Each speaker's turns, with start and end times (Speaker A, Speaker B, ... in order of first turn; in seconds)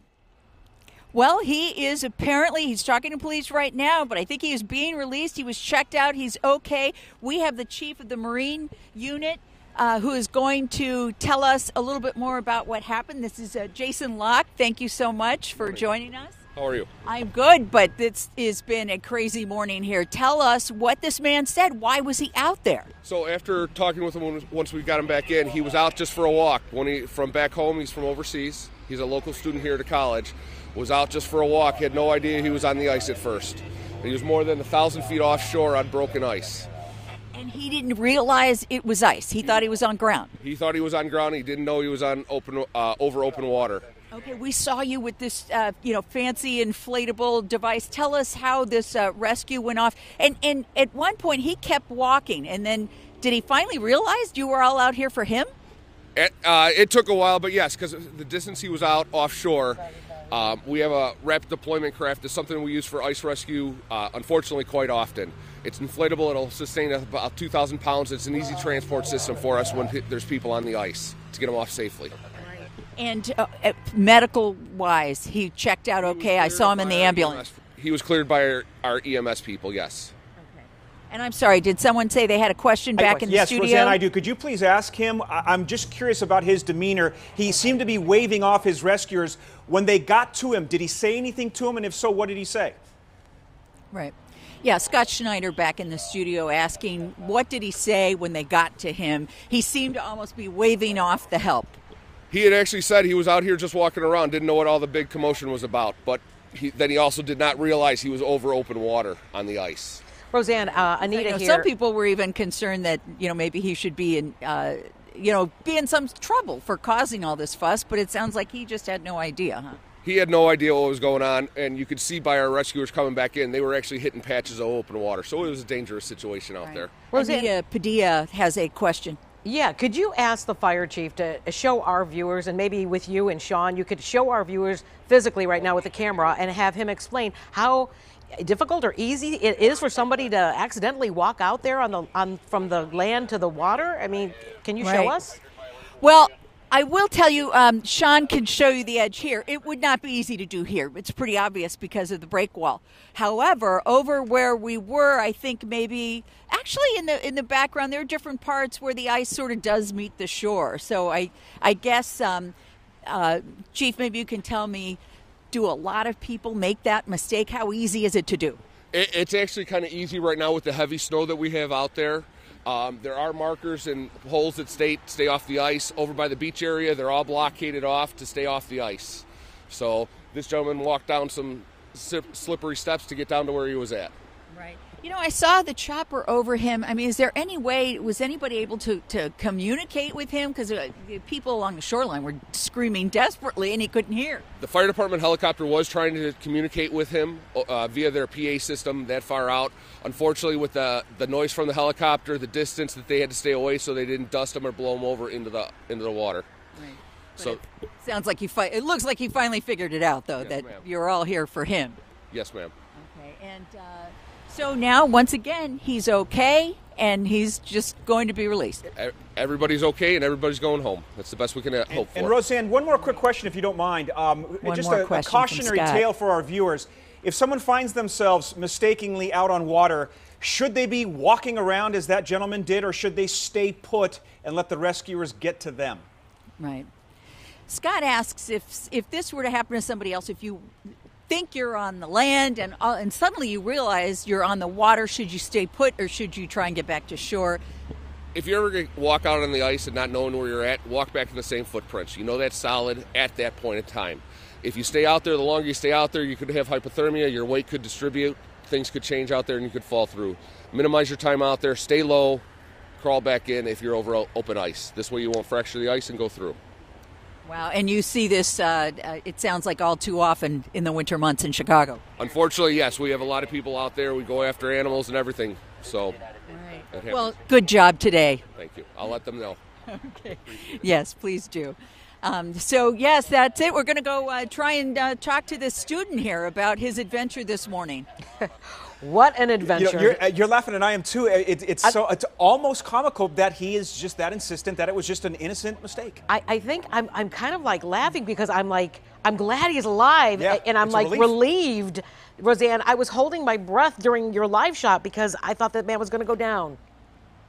Speaker A: 1.1-16.4, 17.0-22.9, 37.3-40.3, 44.1-55.5, 73.0-77.4, 80.4-84.0, 93.9-101.8, 110.8-119.8, 126.6-129.2, 144.8-145.2, 146.0-162.5, 163.1-165.0, 165.5-168.6, 184.5-194.4, 206.7-212.0, 212.9-218.9, 224.6-226.1, 236.6-236.9, 237.7-240.7, 241.3-247.6, 267.4-272.0, 276.5-278.4, 279.9-288.1
Speaker B: 15.6-15.9, 16.5-16.9, 23.0-36.7, 40.4-43.9, 56.1-72.3, 76.0-80.1, 102.3-110.0, 120.0-127.1, 168.9-184.1, 194.6-206.5, 210.4-210.8, 212.3-212.7, 218.9-222.3, 248.3-262.4, 263.0-266.6, 272.2-276.2, 276.9-277.3, 278.5-279.6
Speaker C: 83.0-92.8, 221.9-236.1, 289.6-296.2, 300.4-301.3
Speaker D: 110.3-111.7, 127.1-127.5, 129.4-145.4, 288.9-290.2, 296.3-306.8